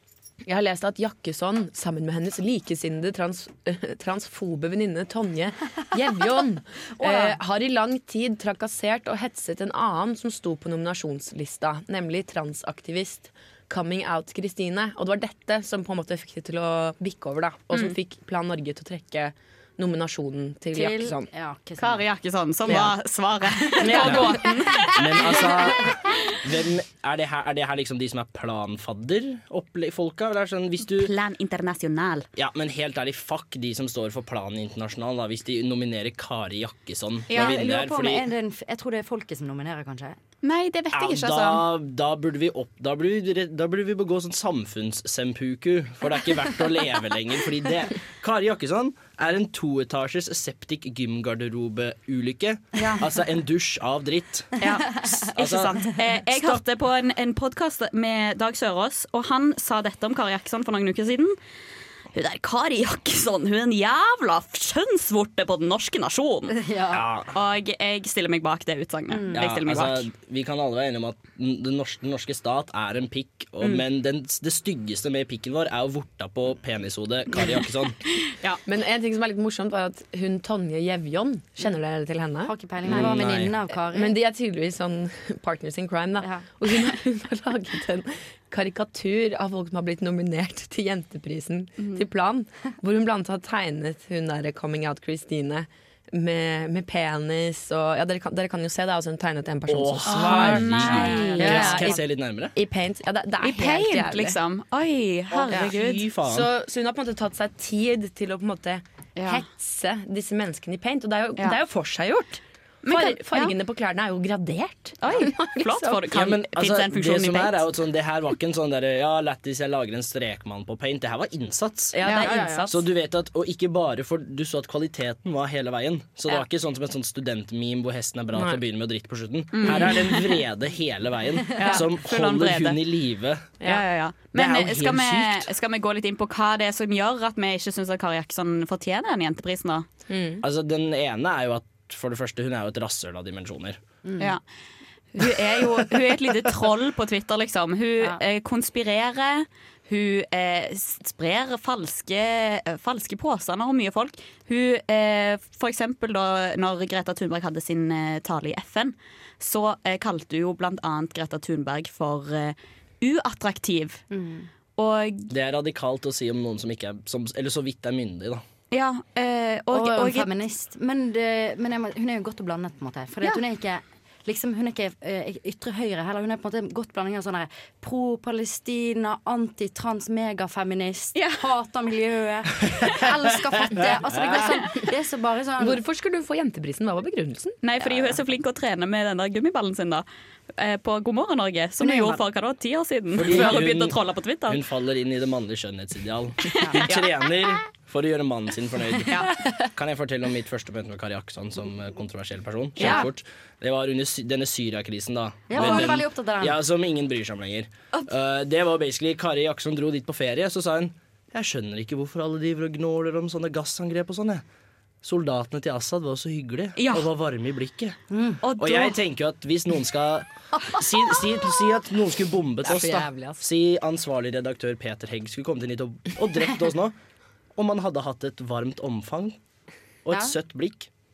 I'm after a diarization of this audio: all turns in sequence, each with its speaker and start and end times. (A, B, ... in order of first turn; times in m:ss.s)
0:00.4-0:21.3 A
0:20.7-0:22.0 B
0:21.8-0:25.7 C
0:22.7-0:22.9 A
0:23.8-0:24.4 A
0:24.0-0:24.3 D
0:24.9-0:31.1 D
0:30.9-0:32.2 C
0:32.4-0:38.2 D
0:37.3-0:37.6 C
0:37.3-0:40.2 B
0:40.4-0:41.6 C
0:40.9-0:54.5 D
0:52.8-0:53.0 C
0:54.6-1:01.4 C
0:55.2-0:56.6 D
1:02.1-1:06.6 C
1:06.5-1:07.1 B
1:06.9-1:07.3 D
1:07.3-1:10.1 C
1:09.1-1:09.4 B
1:09.3-1:18.0 D
1:18.2-1:18.6 C
1:18.6-1:23.2 A
1:22.4-1:24.2 B
1:22.8-1:23.6 D
1:23.8-1:44.4 A
1:26.2-1:26.4 B
1:39.7-1:42.5 D
1:40.0-1:42.0 C
1:43.4-1:46.0 C
1:45.3-1:46.5 D
1:46.2-1:56.0 A
1:49.2-1:49.4 C
1:52.8-1:53.5 C
1:55.0-1:57.7 C
1:56.1-2:02.0 D
2:01.9-2:02.8 A
2:02.0-2:02.3 C
2:02.1-2:02.7 B
2:02.7-2:13.5 D
2:08.3-2:08.6 A
2:09.5-2:10.3 C
2:11.6-2:12.8 C
2:13.6-2:19.9 C
2:14.4-2:15.4 D
2:20.1-2:20.4 A
2:20.4-2:23.8 D
2:24.0-2:24.3 B
2:25.1-2:44.0 C
2:44.1-2:44.5 B
2:44.8-2:45.3 C
2:45.3-2:48.4 D
2:48.7-2:50.3 C
2:49.7-3:05.8 B
3:01.1-3:01.4 C
3:05.6-3:07.6 A
3:07.6-3:14.6 C
3:07.8-3:08.1 B
3:11.8-3:12.2 B
3:13.2-3:34.4 D
3:16.5-3:17.1 C
3:19.0-3:19.3 C
3:22.8-3:23.0 C
3:25.5-3:26.6 B
3:25.6-3:25.8 C
3:35.0-3:38.0 D
3:36.8-3:37.0 C
3:38.1-3:38.4 B
3:38.4-3:39.0 C
3:38.6-3:47.0 D
3:42.6-3:43.2 A
3:47.6-3:49.4 D
3:50.0-3:50.9 D